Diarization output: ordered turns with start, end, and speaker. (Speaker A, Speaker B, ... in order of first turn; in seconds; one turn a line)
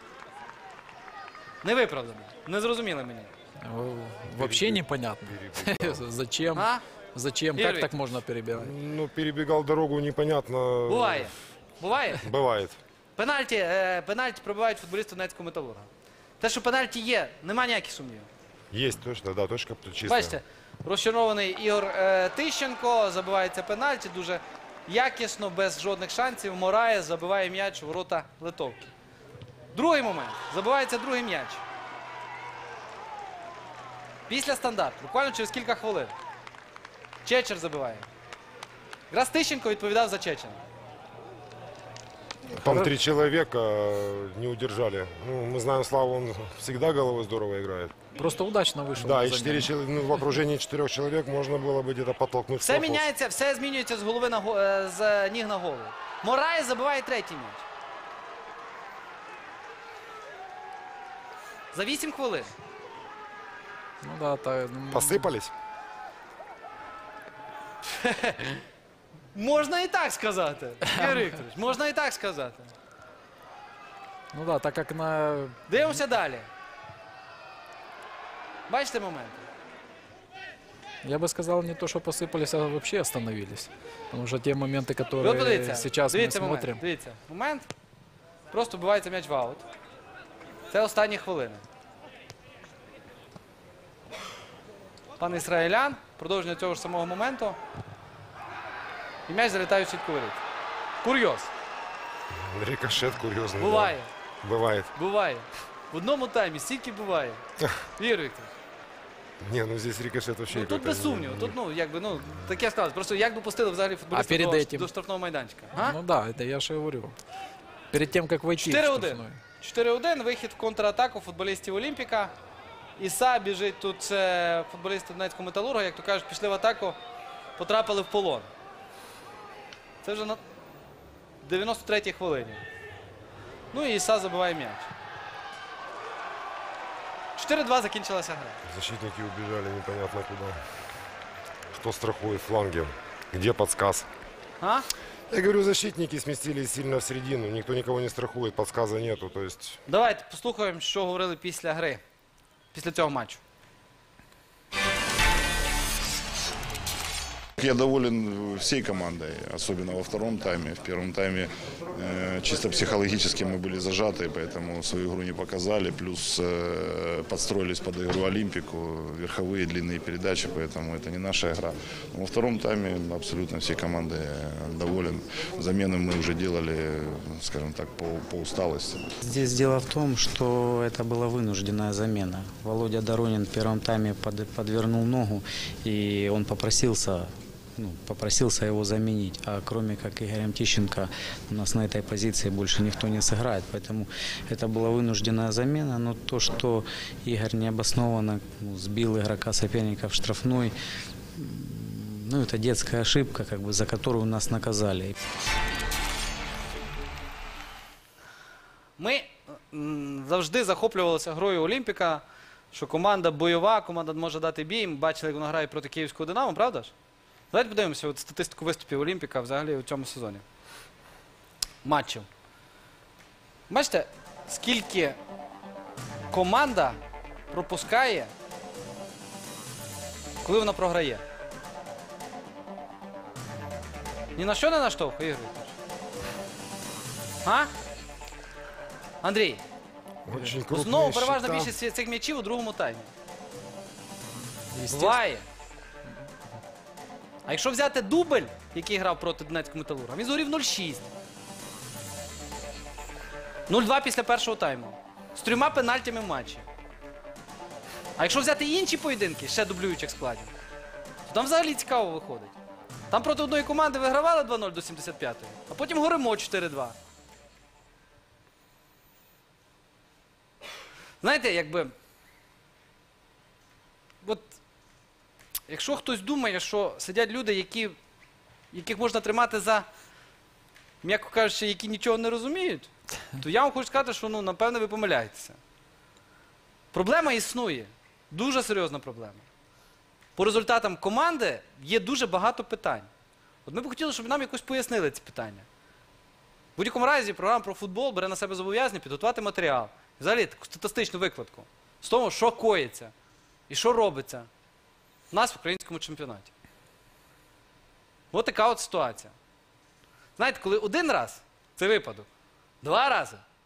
Speaker A: 1.6-3.3
Speaker B: 3.6-8.7
Speaker C: 4.3-6.0
Speaker A: 6.5-6.8
Speaker A: 7.5-7.9
Speaker C: 8.5-11.3
Speaker A: 10.9-12.2
Speaker C: 12.2-12.8
Speaker A: 13.2-15.9
Speaker A: 16.4-18.3
Speaker C: 18.7-20.4
Speaker A: 20.1-28.9
Speaker A: 29.7-31.6
Speaker A: 34.3-36.1
Speaker A: 37.2-38.1
Speaker A: 39.1-40.6
Speaker C: 42.5-47.9
Speaker B: 42.5-42.9
Speaker B: 48.1-49.7
Speaker C: 49.0-53.0
Speaker A: 52.6-57.6
Speaker A: 61.7-62.5
Speaker B: 64.0-65.3
Speaker C: 64.9-65.5
Speaker A: 67.8-68.6
Speaker A: 69.3-72.7
Speaker B: 70.9-71.3
Speaker B: 74.3-75.6
Speaker A: 75.7-76.5
Speaker A: 78.7-79.5
Speaker B: 81.0-86.8
Speaker A: 85.2-87.7
Speaker A: 88.5-89.6
Speaker A: 90.7-91.6
Speaker A: 95.2-97.6
Speaker A: 99.3-100.4
Speaker A: 101.0-101.5
Speaker C: 102.3-104.9
Speaker A: 103.6-104.1
Speaker A: 104.9-107.4
Speaker A: 108.0-108.5
Speaker C: 109.4-111.5
Speaker A: 110.5-116.0
Speaker B: 114.1-114.9
Speaker B: 115.7-117.2
Speaker B: 117.9-119.4
Speaker A: 118.6-122.3
Speaker A: 123.0-127.0
Speaker A: 127.6-128.5
Speaker A: 130.0-130.4
Speaker A: 131.4-132.6
Speaker A: 133.7-134.9
Speaker A: 137.3-138.6
Speaker C: 138.7-140.6
Speaker C: 141.7-144.1
Speaker A: 144.6-144.9
Speaker C: 145.3-149.8
Speaker A: 149.9-152.0
Speaker A: 152.7-153.4
Speaker D: 157.6-179.0
Speaker E: 179.2-200.7
Speaker E: 201.3-205.2
Speaker A: 209.0-216.9
Speaker A: 217.5-220.4
Speaker A: 221.8-222.3
Speaker A: 223.7-225.2
Speaker A: 226.3-227.0
Speaker A: 227.5-228.3
Speaker A: 230.4-231.2
Speaker A: 234.3-235.7
Speaker A: 237.4-237.7
Speaker A: 239.2-239.6
Speaker C: 240.2-241.7
Speaker A: 240.7-243.1
Speaker B: 244.7-245.2
Speaker A: 244.9-245.4
Speaker A: 247.5-251.1
Speaker A: 253.7-256.6
Speaker A: 258.2-260.5
Speaker A: 261.2-262.5
Speaker A: 263.1-266.9
Speaker A: 271.2-271.9
Speaker A: 274.2-274.5
Speaker A: 275.7-278.0
Speaker A: 278.7-279.9
Speaker A: 281.0-285.6
Speaker A: 286.9-289.4
Speaker A: 290.4-293.1
Speaker A: 293.6-295.6
Speaker A: 296.8-303.1
Speaker A: 303.7-304.5
Speaker A: 305.3-306.5
Speaker A: 308.3-309.3
Speaker A: 310.4-312.3
Speaker A: 312.8-313.4